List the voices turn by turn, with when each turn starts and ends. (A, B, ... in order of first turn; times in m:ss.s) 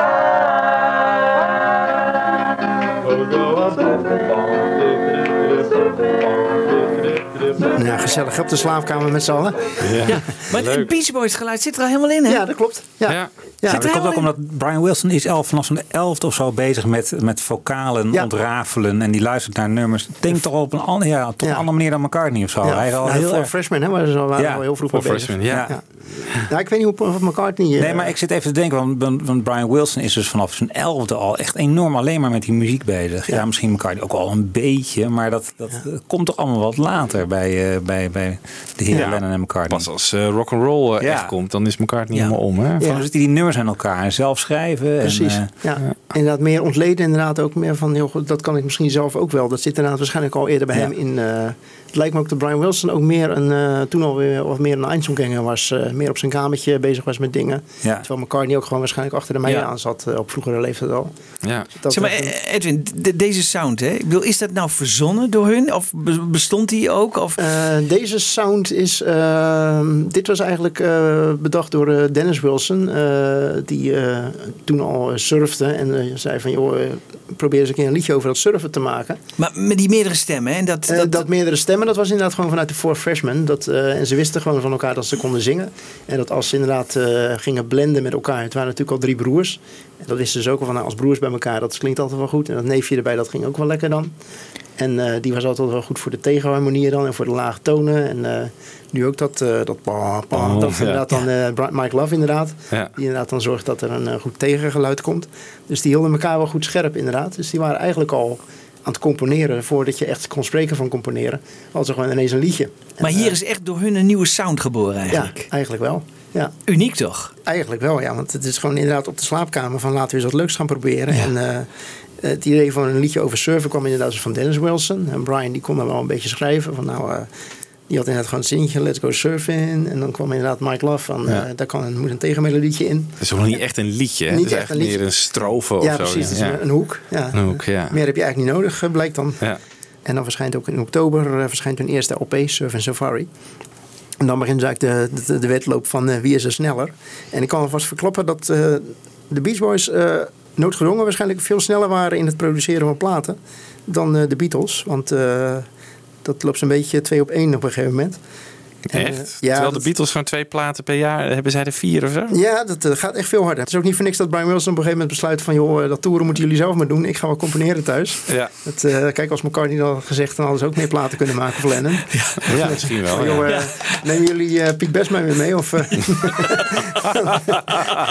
0:07.6-0:09.8 A
0:09.8-0:10.9 B
0:10.0-0:12.4 C
0:12.3-0:13.9 A
0:13.7-0:14.3 C
0:13.7-0:23.5 D
0:22.6-0:28.1 A
0:24.4-0:24.6 D
0:24.9-0:25.7 B
0:25.4-0:25.8 D
0:27.8-0:39.9 D
0:38.9-0:42.8 B
0:41.0-0:41.3 D
0:42.8-0:43.0 A
0:42.8-0:45.5 D
0:45.0-1:01.1 A
1:01.7-1:02.3 A
1:01.9-1:07.4 C
1:07.4-1:19.2 A
1:19.4-1:21.2 C
1:20.9-1:34.1 A
1:34.8-1:53.4 A
1:40.3-1:41.0 B
1:53.0-1:55.4 C
1:55.1-1:56.5 A
1:56.7-1:57.3 C
1:57.4-2:01.7 A
2:02.2-2:07.3 A
2:07.9-2:13.1 A
2:13.2-2:16.6 B
2:14.3-2:19.4 A
2:17.3-2:17.9 B
2:20.0-2:23.3 A
2:24.2-2:35.7 A
2:36.2-2:38.2 A
2:38.9-2:42.3 B
2:38.9-2:39.9 A
2:42.3-2:57.7 A
2:52.1-2:53.9 C
2:52.5-2:53.5 B